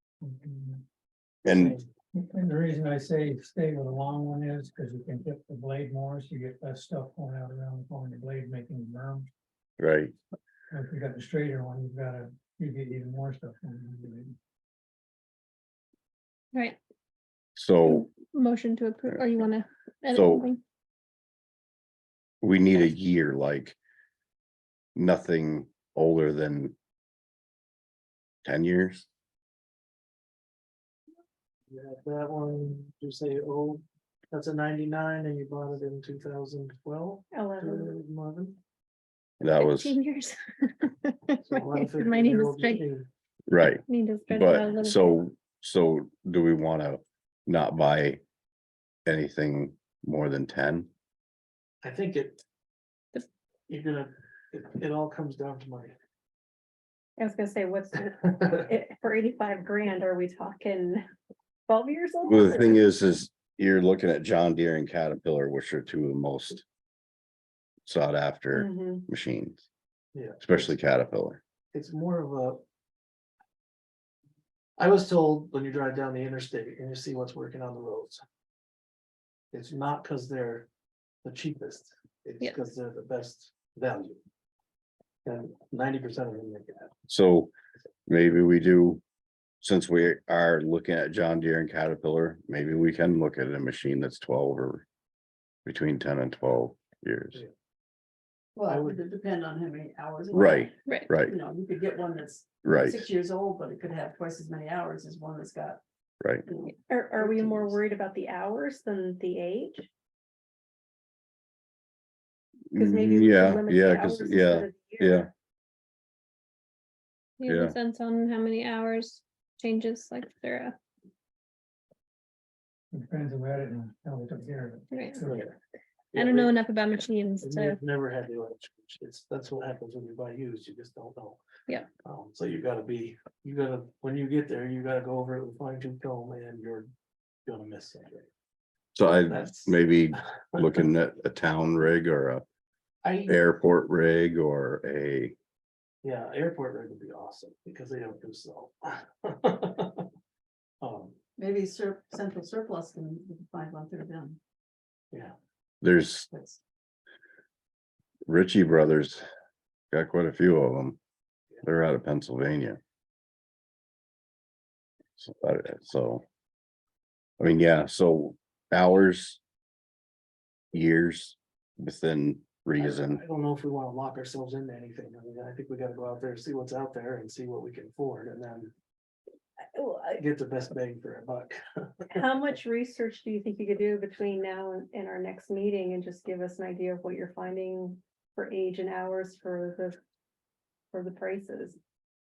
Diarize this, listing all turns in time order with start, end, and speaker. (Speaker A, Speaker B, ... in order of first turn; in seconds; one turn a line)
Speaker A: 0.2-0.8
Speaker B: 1.4-1.8
Speaker A: 2.1-9.3
Speaker B: 9.8-10.2
Speaker A: 10.7-14.3
Speaker B: 17.6-18.1
Speaker C: 17.8-20.6
Speaker B: 20.1-20.5
Speaker B: 22.4-23.8
Speaker B: 24.9-26.7
Speaker B: 28.4-29.0
Speaker D: 31.7-38.6
Speaker E: 37.3-37.9
Speaker B: 39.4-40.0
Speaker C: 39.6-42.8
Speaker D: 41.4-43.1
Speaker B: 43.5-48.2
Speaker C: 43.9-45.2
Speaker B: 49.0-50.9
Speaker D: 51.8-52.4
Speaker D: 53.7-55.9
Speaker E: 57.2-61.0
Speaker E: 61.7-62.8
Speaker B: 62.2-66.6
Speaker B: 67.8-69.6
Speaker E: 68.5-69.0
Speaker D: 70.1-70.7
Speaker B: 70.4-71.4
Speaker D: 71.7-72.6
Speaker D: 74.8-78.2
Speaker D: 79.5-80.7
Speaker D: 81.2-84.2
Speaker D: 85.2-86.9
Speaker B: 87.1-87.5
Speaker B: 88.1-89.0
Speaker B: 89.6-94.8
Speaker B: 95.6-97.4
Speaker F: 98.5-105.8
Speaker D: 98.7-99.0
Speaker B: 100.3-101.4
Speaker B: 102.6-103.1
Speaker F: 106.5-107.8
Speaker E: 106.9-109.9
Speaker B: 112.7-115.3
Speaker E: 112.7-115.3
Speaker C: 117.4-120.8
Speaker B: 117.5-117.7
Speaker A: 122.9-125.5
Speaker C: 124.9-125.2
Speaker D: 125.2-125.5
Speaker D: 126.1-126.6
Speaker C: 126.1-127.8
Speaker D: 127.4-131.4
Speaker D: 132.0-136.9
Speaker D: 137.4-138.3
Speaker B: 138.9-142.4
Speaker D: 139.3-140.6
Speaker D: 143.0-143.4
Speaker B: 143.3-145.3
Speaker D: 146.0-150.1
Speaker D: 150.8-151.2
Speaker F: 151.4-154.4
Speaker B: 155.8-156.3
Speaker F: 156.3-156.6
Speaker B: 158.3-159.2
Speaker B: 159.9-161.0
Speaker B: 161.6-162.8
Speaker B: 165.2-166.2
Speaker B: 167.4-169.4
Speaker B: 170.7-173.2
Speaker D: 172.8-178.7
Speaker E: 179.7-180.1
Speaker D: 180.2-182.1
Speaker E: 182.1-190.0
Speaker E: 190.9-191.8